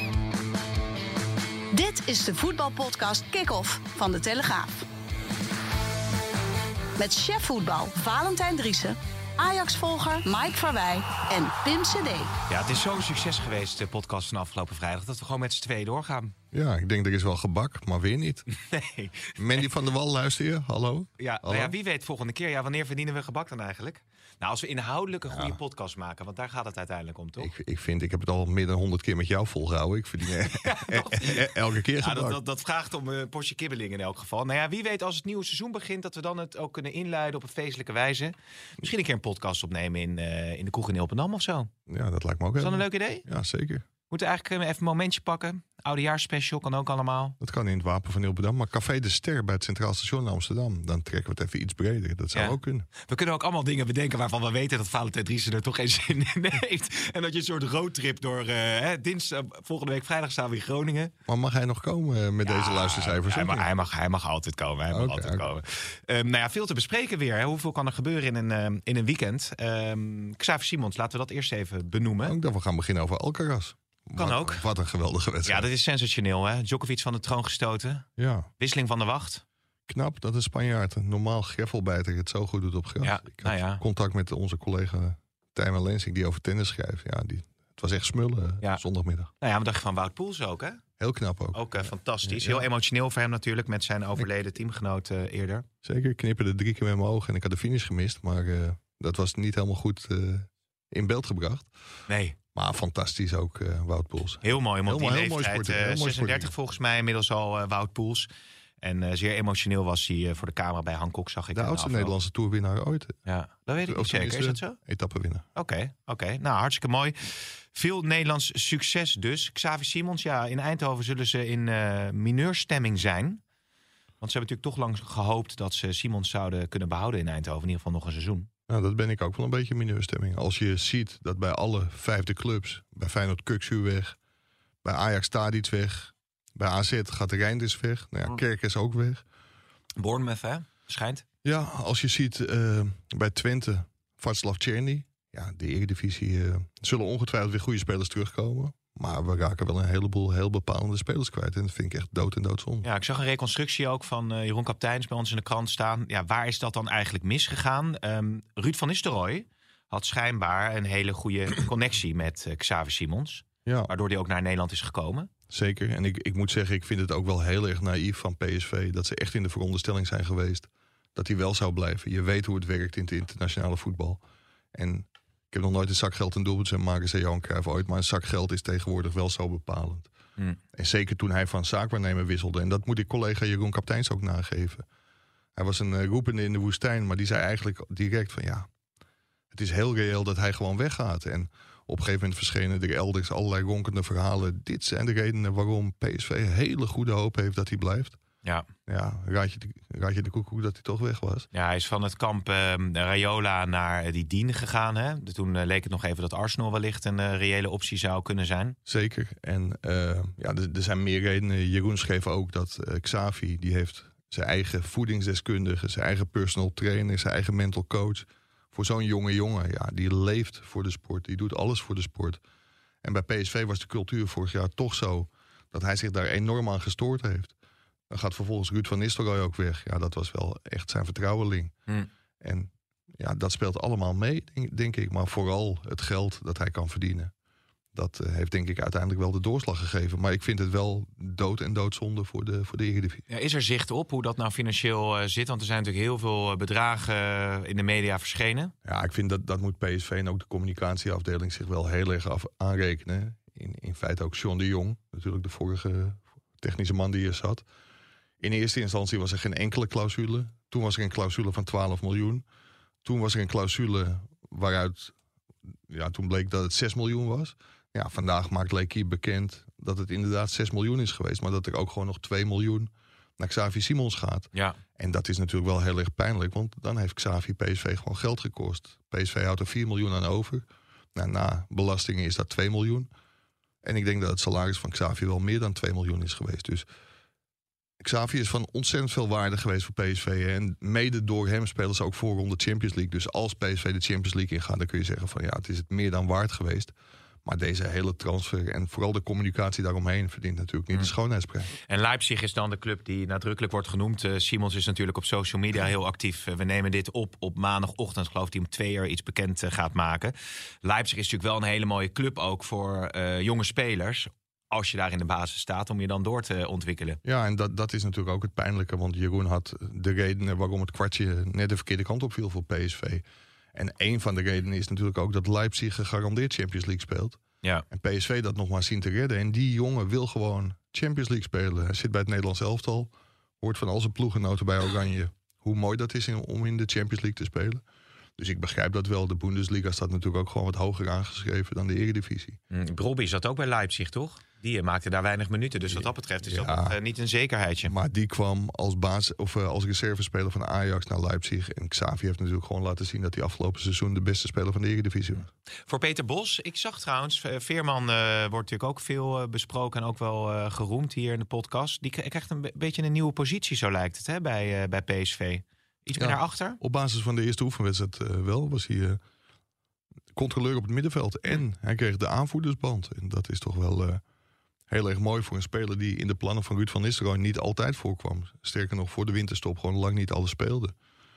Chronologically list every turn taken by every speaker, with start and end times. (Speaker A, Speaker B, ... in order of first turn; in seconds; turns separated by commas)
Speaker A: 1.7-4.8, Speaker A: 7.0-12.3, Speaker B: 12.5-16.3, Speaker C: 16.5-18.4, Speaker B: 18.5-19.7, Speaker C: 19.4-21.8, Speaker B: 21.2-27.5, Speaker C: 25.3-25.6, Speaker C: 27.4-32.4, Speaker B: 30.4-41.7, Speaker C: 41.9-43.9, Speaker B: 42.6-43.2, Speaker B: 44.1-47.4, Speaker C: 47.4-52.9, Speaker B: 52.3-61.1, Speaker C: 61.3-63.7, Speaker B: 62.4-72.4, Speaker C: 64.9-65.5, Speaker C: 72.2-75.7, Speaker B: 74.2-74.7, Speaker B: 75.5-78.1, Speaker C: 78.2-78.5, Speaker B: 78.6-79.4, Speaker C: 79.9-89.3, Speaker B: 83.0-83.8, Speaker B: 89.4-90.8, Speaker C: 91.0-92.7, Speaker B: 91.5-95.7, Speaker C: 95.8-101.7, Speaker B: 102.1-102.4, Speaker C: 102.5-106.5, Speaker B: 104.4-108.3, Speaker B: 108.8-112.2, Speaker C: 111.5-113.2, Speaker B: 113.3-114.8, Speaker C: 113.8-115.5, Speaker B: 115.6-123.4, Speaker B: 124.2-128.5, Speaker C: 128.7-134.2, Speaker C: 134.8-139.2, Speaker B: 140.0-141.2, Speaker C: 141.4-152.9, Speaker B: 152.8-165.3, Speaker C: 163.7-163.9, Speaker C: 165.5-174.2, Speaker C: 174.7-180.1, Speaker C: 180.7-184.8, Speaker C: 185.6-188.7, Speaker C: 189.5-198.2, Speaker C: 198.9-201.5, Speaker B: 201.5-208.8, Speaker C: 208.9-222.4, Speaker C: 223.0-227.6, Speaker C: 228.1-231.7, Speaker C: 232.4-237.3, Speaker C: 237.9-243.2, Speaker B: 243.3-248.7, Speaker C: 248.8-257.6, Speaker C: 258.4-262.4, Speaker C: 263.0-265.1, Speaker C: 265.9-283.1, Speaker C: 283.8-286.9, Speaker C: 288.0-296.9, Speaker C: 297.4-301.7, Speaker B: 301.9-317.2, Speaker C: 317.2-337.8, Speaker C: 338.4-342.6, Speaker B: 342.7-347.9, Speaker C: 345.9-347.0, Speaker C: 347.9-355.5, Speaker B: 355.9-366.8, Speaker C: 366.2-369.2, Speaker C: 370.4-374.2, Speaker C: 374.9-380.9